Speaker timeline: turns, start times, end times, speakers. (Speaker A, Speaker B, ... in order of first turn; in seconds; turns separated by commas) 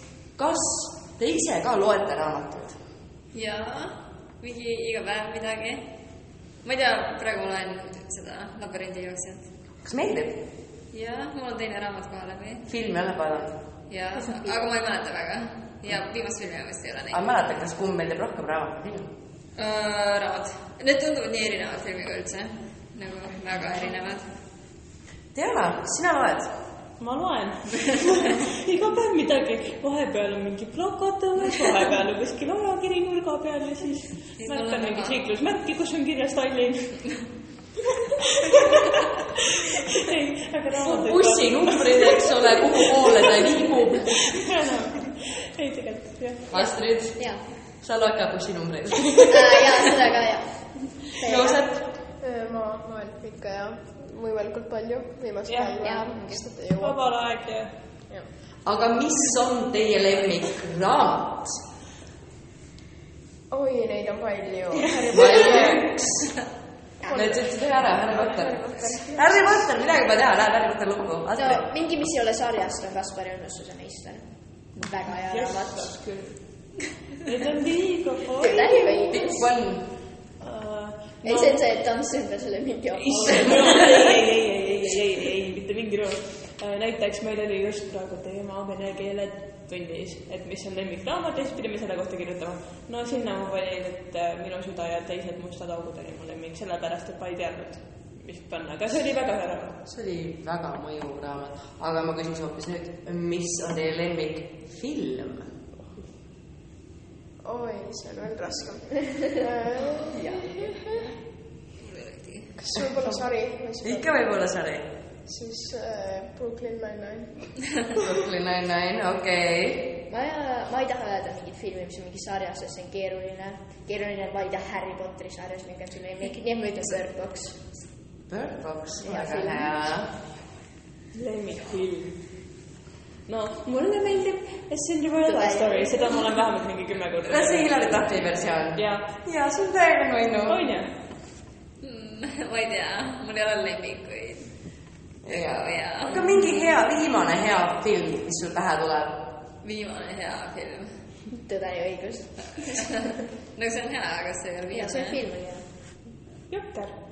Speaker A: 0.3-2.8, Speaker B: 3.3-5.9, Speaker B: 6.6-9.5, Speaker A: 9.8-10.4, Speaker B: 10.9-12.7, Speaker A: 12.7-13.6, Speaker B: 13.9-17.2, Speaker C: 14.1-14.6, Speaker A: 17.1-19.1, Speaker B: 19.6-24.3, Speaker A: 25.4-26.5, Speaker D: 27.0-37.3, Speaker B: 34.4-35.2, Speaker D: 38.5-39.0, Speaker D: 39.7-43.6, Speaker A: 40.8-44.4, Speaker D: 44.3-46.5, Speaker A: 46.5-49.9, Speaker C: 46.6-47.4, Speaker C: 49.3-51.7, Speaker A: 51.2-51.9, Speaker E: 52.0-57.2, Speaker D: 55.5-55.9, Speaker C: 55.8-56.5, Speaker D: 56.8-57.9, Speaker A: 58.6-61.6, Speaker E: 63.5-66.2, Speaker D: 64.9-65.7, Speaker A: 65.1-66.4, Speaker C: 67.0-67.4, Speaker E: 67.0-69.2, Speaker A: 67.1-71.6, Speaker D: 68.8-69.2, Speaker C: 71.3-76.0, Speaker D: 74.8-79.0, Speaker C: 78.4-79.5, Speaker A: 79.1-79.9, Speaker D: 80.4-81.6, Speaker C: 81.2-84.0, Speaker D: 83.0-99.8, Speaker A: 99.9-105.5, Speaker E: 107.4-111.1, Speaker C: 110.1-111.0, Speaker B: 111.8-112.5, Speaker E: 112.6-114.1, Speaker A: 113.8-114.9, Speaker E: 115.2-117.9, Speaker A: 118.0-120.0, Speaker C: 120.1-127.8, Speaker A: 128.3-130.1, Speaker C: 129.0-129.8, Speaker D: 131.1-132.6, Speaker D: 133.2-137.8, Speaker C: 135.2-136.3, Speaker A: 137.2-140.7, Speaker D: 138.7-139.1, Speaker D: 140.4-140.9, Speaker B: 141.8-144.5, Speaker A: 145.2-149.3, Speaker B: 145.2-146.3, Speaker B: 149.6-151.0, Speaker C: 151.4-153.1, Speaker B: 153.5-155.2, Speaker C: 154.7-155.7, Speaker D: 156.5-156.9